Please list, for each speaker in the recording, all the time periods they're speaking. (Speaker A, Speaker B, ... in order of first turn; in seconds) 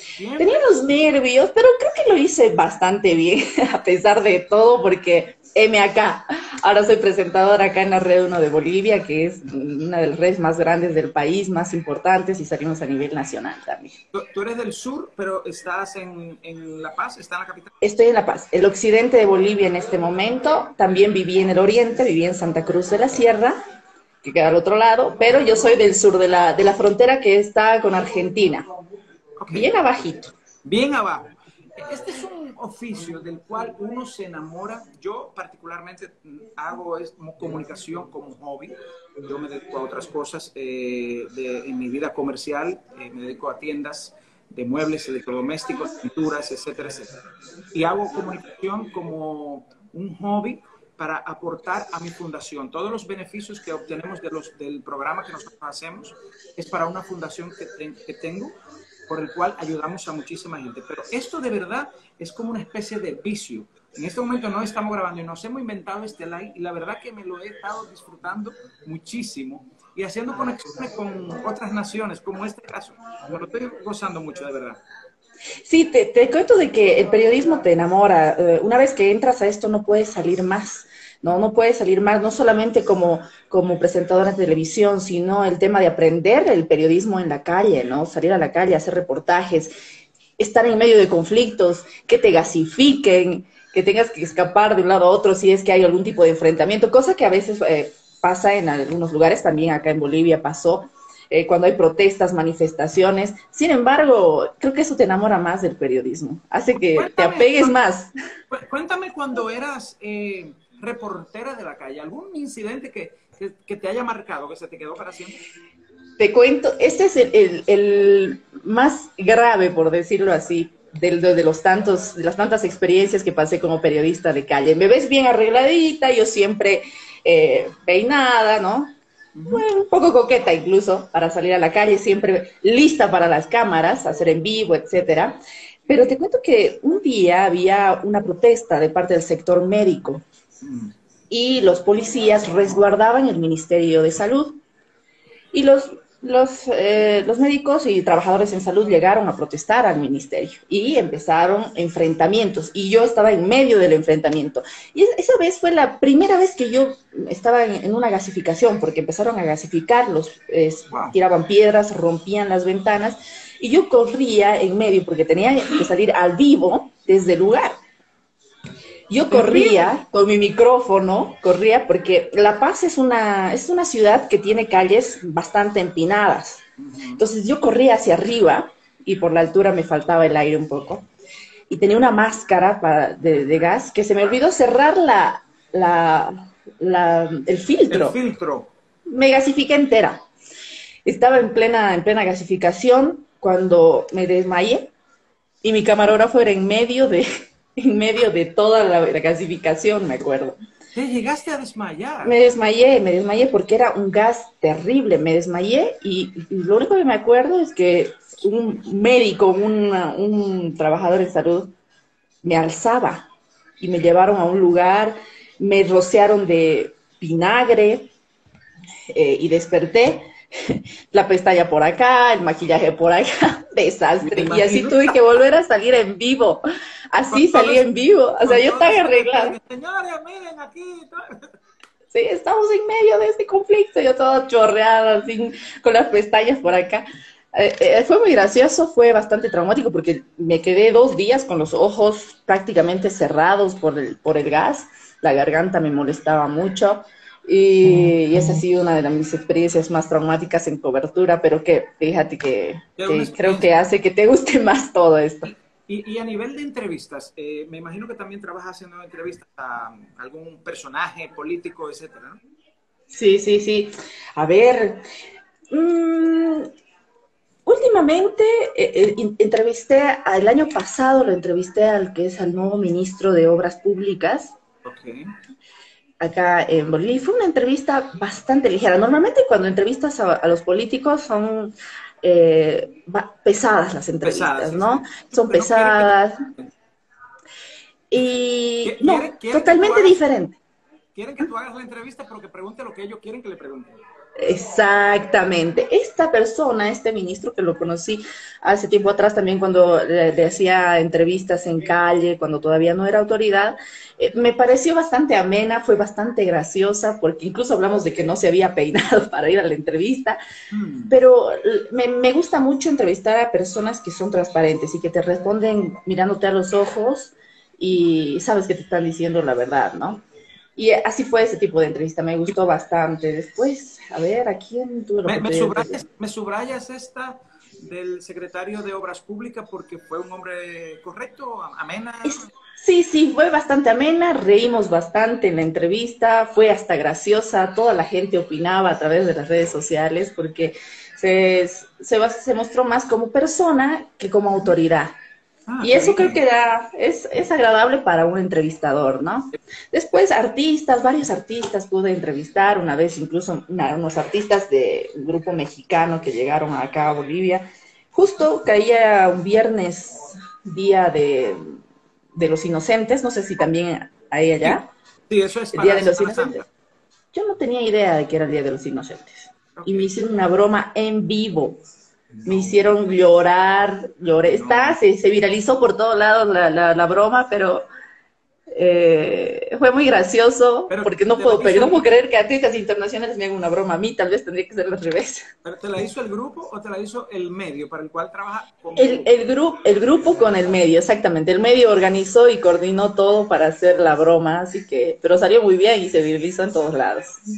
Speaker A: 0.2-0.7, 14.1-17.7, 29.4-29.7, 30.6-47.1, 47.7-58.6, 59.1-74.8, 106.9-107.7, 108.5-115.4, 129.3-129.6, 140.6-140.9, 169.3-169.9, 176.8-177.2, 187.9-188.7, 200.9-202.3, 224.2-225.2, 227.3-227.9, 228.4-231.5, 253.0-253.7, 255.4-262.4, 274.8-275.3, 284.2-286.7, 288.8-290.2, 291.1-294.0, 310.7-311.1, 325.2-332.5, 345.7-346.4, 365.3-366.6, 369.8-370.1, 372.4-372.8, 374.5-375.0, 380.9-382.1, 385.6-389.4
Speaker B: 0.4-14.0, 17.8-23.6, 24.2-28.7, 29.5-30.3, 75.6-89.7, 90.4-108.1, 116.2-128.9, 129.5-140.2, 141.3-144.6, 145.5-167.8, 169.1-176.6, 177.2-181.1, 181.7-188.2, 189.1-190.2, 191.0-194.9, 195.6-200.6, 202.2-211.7, 212.4-213.3, 213.8-218.1, 219.1-229.6, 232.1-255.5, 263.1-265.0, 265.7-266.7, 267.6-274.6, 276.2-286.5, 288.1-290.6, 294.4-310.4, 311.1-320.2, 320.8-326.0, 332.2-345.1, 345.8-361.8, 362.3-364.9, 365.7-366.6, 367.3-371.8, 372.4-377.9, 378.7-385.5, 388.9-397.4